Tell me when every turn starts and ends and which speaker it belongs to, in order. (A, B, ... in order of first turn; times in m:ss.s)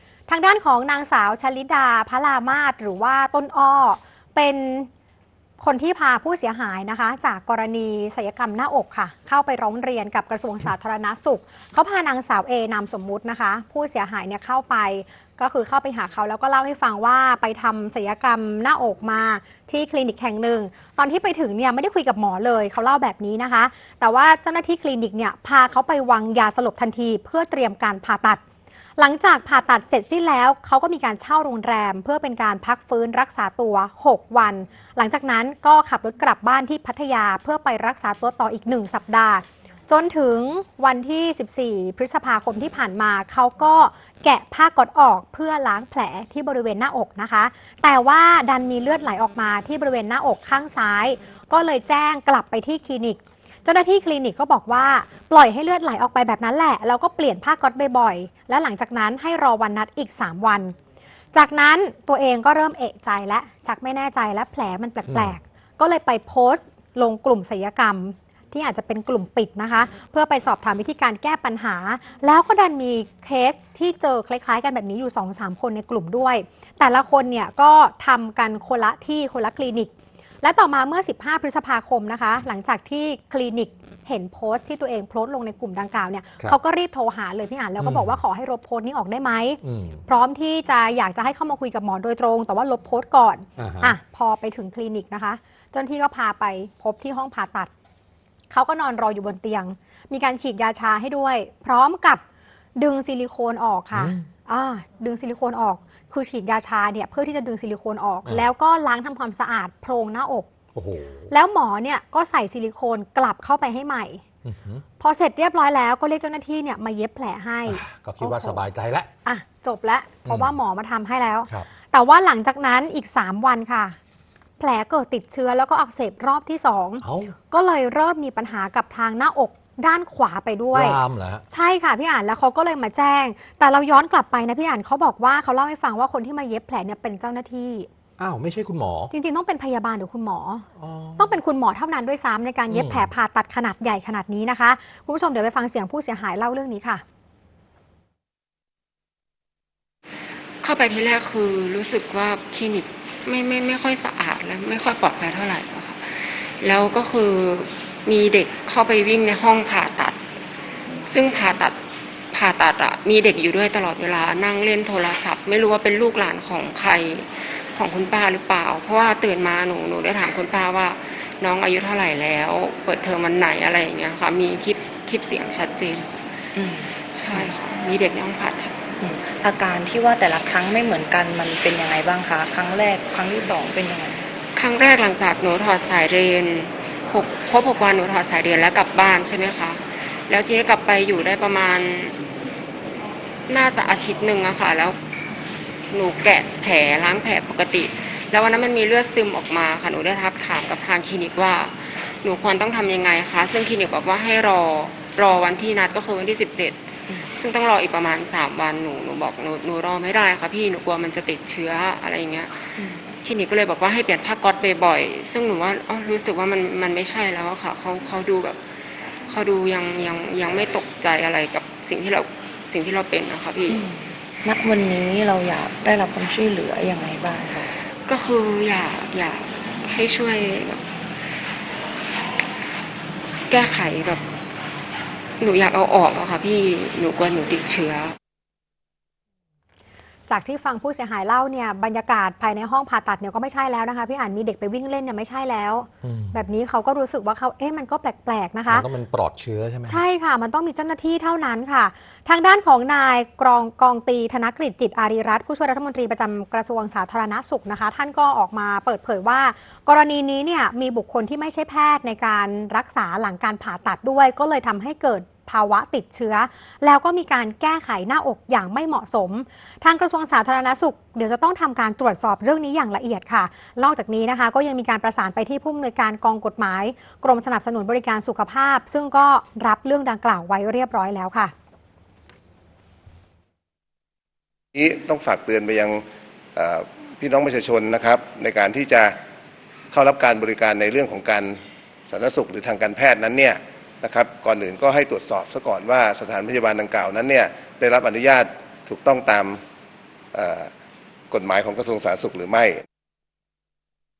0:00.3-0:04.9 A
0:05.6-0:28.4 A
0:29.0-1:00.7 A
1:01.3-1:19.9 A
1:05.1-1:05.3 B
1:20.4-1:37.7 A
1:27.8-1:28.2 B
1:29.6-1:30.0 B
1:33.6-1:34.0 B
1:38.5-1:42.2 A
1:42.8-1:50.5 A
1:43.9-1:44.3 B
1:50.7-1:51.3 B
1:51.3-1:54.2 A
1:54.4-1:54.8 B
1:55.0-1:58.6 A
1:57.7-1:59.1 B
1:59.2-2:04.0 A
2:00.3-2:00.6 B
2:04.6-2:11.0 A
2:07.0-2:07.3 B
2:10.7-2:11.4 B
2:11.5-2:17.9 A
2:18.2-2:19.1 B
2:19.1-2:27.0 A
2:20.8-2:21.4 B
2:22.7-2:23.1 B
2:30.6-2:40.2 C
2:41.0-2:41.8 C
2:42.3-2:56.1 C
2:56.5-2:57.5 D
2:57.1-2:58.8 C
2:59.0-3:04.3 D
3:04.5-3:12.2 C
3:13.5-3:15.0 C
3:15.9-3:32.6 C
3:32.8-3:33.0 D
3:33.2-3:38.6 C
3:39.2-3:43.8 C
3:43.7-3:47.8 D
3:48.0-3:50.8 C
3:53.5-3:54.2 C
3:55.4-3:58.2 C
4:00.3-4:08.9 A
4:06.0-4:06.4 B
4:08.7-4:10.0 B
4:09.8-4:41.5 A
4:44.7-4:46.0 E
4:46.5-4:49.1 E
4:49.9-4:59.6 E
5:00.3-5:00.7 E
5:01.3-5:02.8 E